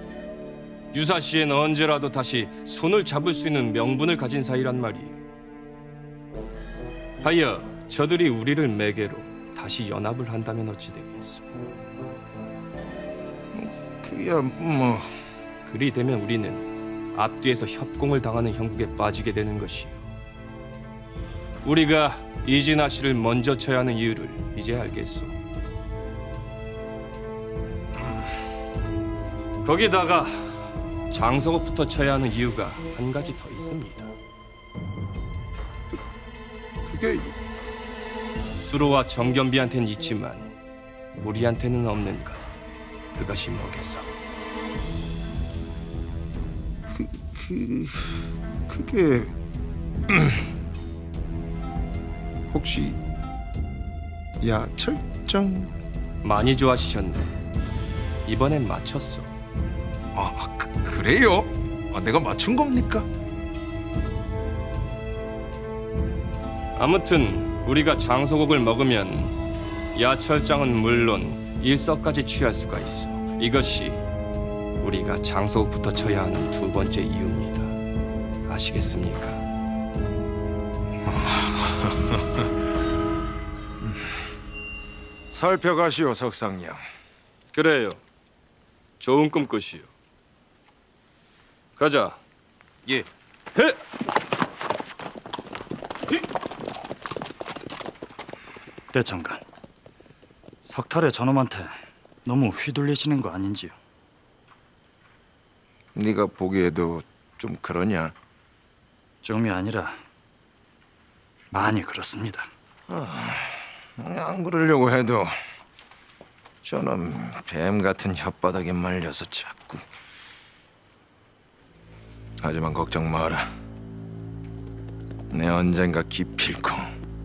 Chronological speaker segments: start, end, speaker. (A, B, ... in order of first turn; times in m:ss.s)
0:00.9-0:05.2 A
0:07.2-0:11.5 A
0:13.5-0:15.1 B
0:15.6-0:20.0 A
0:21.6-0:25.4 A
0:29.6-0:34.1 A
0:36.9-0:37.3 B
0:38.6-0:40.5 A
0:41.2-0:42.4 A
0:43.1-0:44.1 A
0:46.9-0:49.3 B
0:50.1-0:50.5 B
0:52.5-0:53.0 B
0:54.4-0:55.7 B
0:56.2-0:57.3 A
0:58.2-0:59.3 A
1:00.1-1:03.0 B
1:06.8-1:09.3 A
1:09.9-1:14.0 A
1:14.8-1:17.8 A
1:18.5-1:19.4 A
1:21.2-1:22.2 B
1:25.3-1:26.8 B
1:27.5-1:28.0 A
1:29.0-1:29.9 A
1:31.8-1:32.2 A
1:33.5-1:33.8 A
1:38.9-1:39.4 C
1:40.6-1:43.7 C
1:45.9-1:48.1 B
1:49.2-1:50.0 C
1:51.5-1:52.5 C
1:52.9-1:55.3 B
1:56.6-1:59.8 B
2:02.4-2:03.5 B
2:05.3-2:06.9 B